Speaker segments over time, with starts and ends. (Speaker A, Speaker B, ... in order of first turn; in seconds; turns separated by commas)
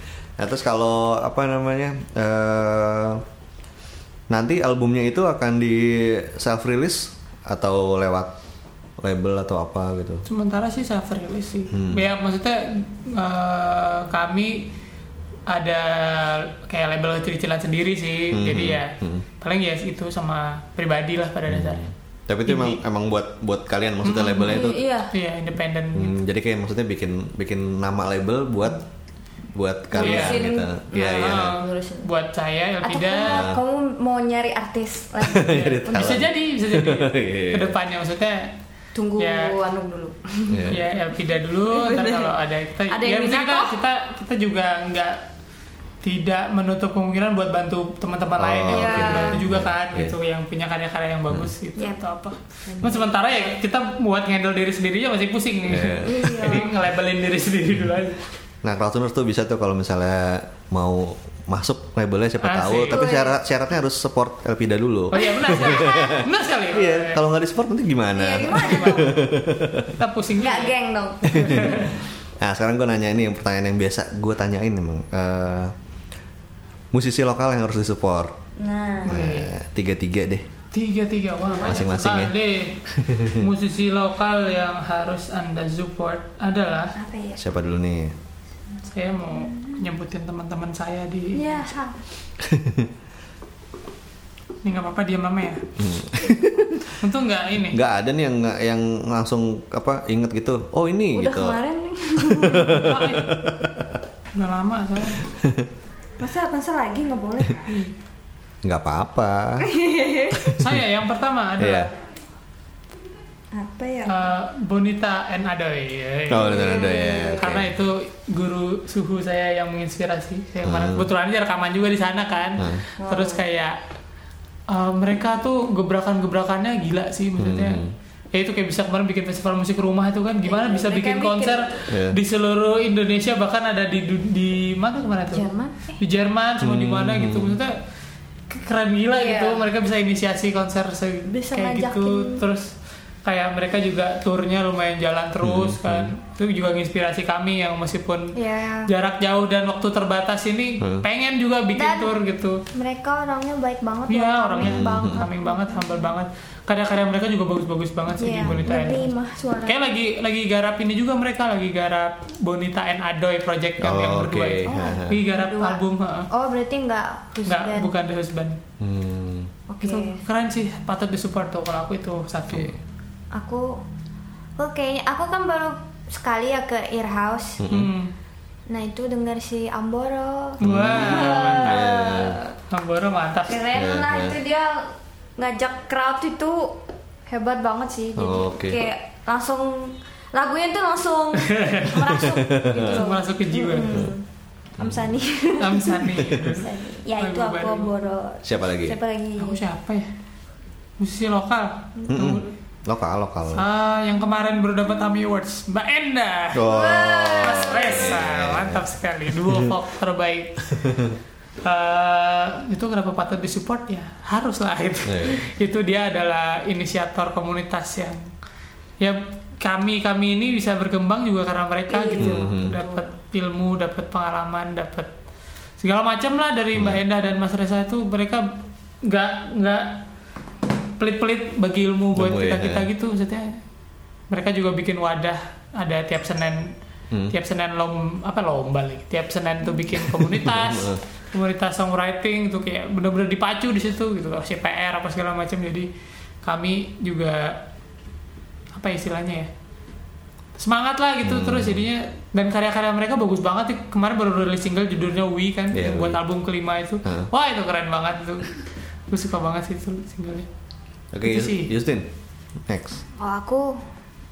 Speaker A: 0.4-3.2, Speaker A: 4.3-8.3, Speaker A: 9.0-10.2, Speaker B: 10.3-14.7, Speaker A: 11.7-12.1, Speaker B: 15.5-21.8, Speaker A: 18.3-19.2, Speaker A: 21.5-24.8, Speaker B: 22.4-22.8, Speaker B: 24.0-26.1, Speaker C: 24.5-25.1, Speaker A: 25.9-28.8, Speaker A: 29.5-31.6, Speaker C: 29.9-32.1, Speaker B: 30.0-30.4, Speaker B: 31.1-33.4, Speaker C: 32.8-36.2, Speaker A: 33.3-33.6, Speaker A: 35.2-37.7, Speaker B: 35.5-38.5, Speaker C: 38.9-40.7, Speaker B: 39.2-39.5, Speaker A: 40.5-40.8, Speaker B: 40.7-45.2, Speaker C: 41.7-42.3, Speaker C: 42.9-43.7, Speaker B: 46.0-58.2, Speaker A: 48.4-50.1, Speaker C: 48.7-49.4, Speaker C: 52.7-53.1, Speaker A: 55.7-56.6, Speaker C: 55.9-56.7, Speaker A: 58.6-69.9, Speaker B: 62.4-63.0, Speaker C: 62.9-63.4, Speaker B: 65.1-67.2, Speaker C: 65.2-66.2, Speaker C: 68.1-69.2, Speaker B: 68.4-69.1, Speaker B: 70.0-70.7, Speaker C: 70.4-71.9, Speaker B: 71.3-71.9, Speaker A: 71.3-75.7, Speaker A: 76.9-78.3, Speaker C: 78.6-79.2, Speaker A: 79.0-80.5, Speaker B: 79.0-79.5, Speaker B: 80.7-82.8, Speaker A: 81.6-82.3, Speaker A: 82.9-83.5, Speaker B: 83.3-86.9, Speaker C: 87.0-87.4, Speaker A: 87.4-88.2, Speaker B: 88.8-91.4, Speaker C: 89.3-89.8, Speaker C: 91.3-92.0, Speaker A: 92.4-92.9, Speaker B: 94.6-95.6, Speaker A: 95.8-96.8, Speaker B: 97.0-97.8, Speaker A: 97.7-101.6, Speaker C: 101.1-102.8, Speaker A: 102.2-103.9, Speaker B: 102.7-103.2, Speaker B: 104.3-105.3, Speaker A: 105.3-105.7, Speaker C: 106.2-107.7, Speaker B: 107.7-107.9, Speaker A: 108.6-109.7, Speaker C: 109.6-110.4, Speaker A: 110.4-110.7, Speaker B: 110.6-111.9, Speaker A: 111.6-111.9, Speaker C: 113.5-114.2, Speaker B: 114.1-123.8, Speaker A: 116.3-117.7, Speaker C: 116.4-117.5, Speaker A: 120.6-121.1, Speaker A: 122.6-122.8, Speaker C: 123.0-123.4, Speaker B: 124.7-127.8, Speaker A: 127.4-127.9, Speaker B: 128.3-135.4, Speaker C: 130.4-131.8, Speaker A: 131.9-132.2, Speaker C: 135.3-135.9, Speaker B: 136.0-137.7, Speaker A: 136.6-137.6, Speaker B: 138.5-142.7, Speaker C: 139.1-139.7, Speaker C: 141.3-142.4, Speaker B: 143.2-148.3, Speaker A: 145.4-146.1, Speaker C: 148.3-148.9, Speaker B: 148.9-152.6, Speaker A: 150.8-151.1, Speaker C: 151.8-152.2, Speaker C: 152.7-156.1, Speaker B: 154.1-159.1, Speaker A: 154.6-155.2, Speaker C: 158.2-159.8, Speaker A: 158.3-158.7, Speaker B: 159.7-166.3, Speaker A: 163.8-165.2, Speaker C: 164.7-167.9, Speaker B: 167.4-168.6, Speaker A: 168.8-169.5, Speaker C: 169.7-170.2, Speaker B: 169.8-172.8, Speaker A: 172.5-172.8, Speaker C: 173.3-173.8, Speaker C: 174.6-177.6, Speaker A: 177.6-177.9, Speaker B: 177.7-178.1, Speaker C: 178.7-182.5, Speaker B: 180.6-181.8, Speaker A: 180.6-182.4, Speaker B: 182.7-183.6, Speaker C: 183.5-186.8, Speaker A: 183.7-184.4, Speaker C: 187.3-194.2, Speaker A: 188.2-188.8, Speaker B: 191.4-192.1, Speaker A: 192.0-193.0, Speaker B: 192.8-194.1, Speaker C: 194.8-199.6, Speaker B: 195.6-197.9, Speaker A: 198.4-199.0, Speaker B: 199.4-200.1, Speaker B: 201.0-202.5, Speaker A: 202.1-203.7, Speaker B: 203.5-206.6, Speaker A: 206.5-209.7, Speaker C: 206.7-208.2, Speaker B: 207.4-210.7, Speaker A: 210.8-211.2, Speaker B: 211.6-218.3, Speaker A: 215.0-215.4, Speaker B: 219.0-225.1, Speaker C: 221.9-223.0, Speaker A: 222.2-222.8, Speaker B: 225.8-228.5, Speaker A: 226.7-227.0, Speaker B: 229.0-230.0, Speaker B: 231.0-233.6, Speaker A: 232.2-232.9, Speaker B: 234.3-236.7, Speaker B: 237.3-245.9, Speaker A: 239.9-241.0, Speaker B: 246.4-247.6, Speaker B: 248.7-249.5, Speaker B: 250.6-258.6, Speaker A: 251.2-251.8, Speaker A: 255.7-256.2, Speaker B: 259.1-260.5, Speaker A: 261.1-262.1, Speaker B: 261.2-261.7, Speaker A: 262.6-263.0, Speaker C: 263.2-263.8